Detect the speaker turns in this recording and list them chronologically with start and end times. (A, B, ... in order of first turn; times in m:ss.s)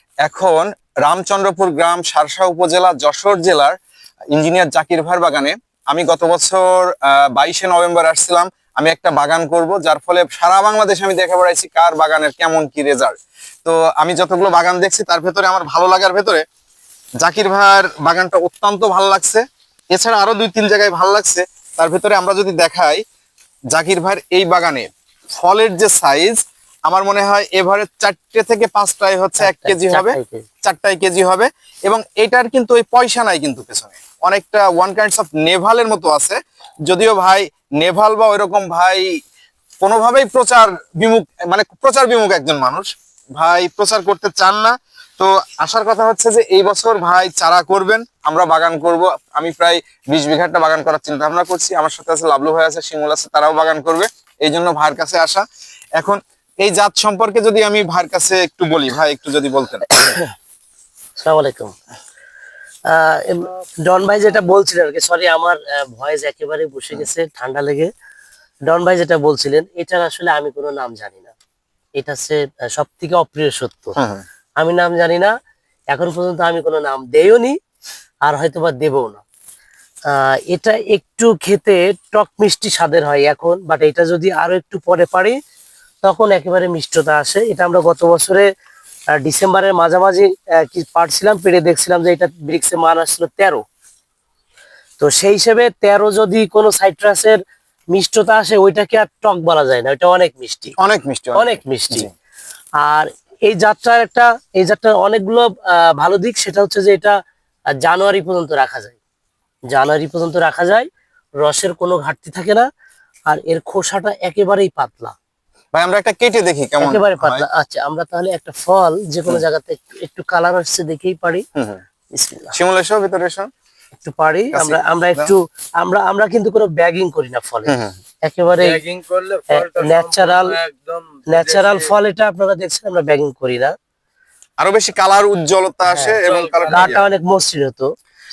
0:00.2-0:03.8 A
0:04.3-0:16.4 A
0:17.2-0:23.0 A
0:23.7-0:39.1 A
0:29.4-0:30.5 B
0:39.8-0:55.4 A
0:56.0-1:00.2 A
1:00.0-1:00.3 B
1:01.2-1:01.7 B
1:02.9-1:07.9 B
1:03.4-1:03.7 C
1:08.7-1:11.3 B
1:12.0-1:14.0 B
1:14.0-1:14.2 A
1:14.6-1:15.3 B
1:15.9-1:17.6 B
1:18.2-1:19.2 B
1:20.1-1:25.4 B
1:26.0-1:28.4 B
1:29.2-1:33.6 B
1:35.0-1:37.4 B
1:37.9-1:40.7 B
1:40.8-1:42.1 A
1:41.4-1:42.1 B
1:42.8-1:47.2 B
1:47.7-1:49.0 B
1:49.7-1:50.9 B
1:51.4-1:52.7 B
1:53.3-1:55.1 B
1:55.7-1:57.4 A
1:56.8-2:01.4 B
2:01.6-2:01.8 A
2:02.1-2:02.5 B
2:02.5-2:03.5 A
2:04.0-2:08.8 B
2:04.5-2:05.3 A
2:07.7-2:07.9 A
2:08.6-2:11.9 C
2:09.5-2:10.6 B
2:11.3-2:13.7 B
2:14.6-2:17.1 A
2:15.9-2:17.9 B
2:16.2-2:17.0 C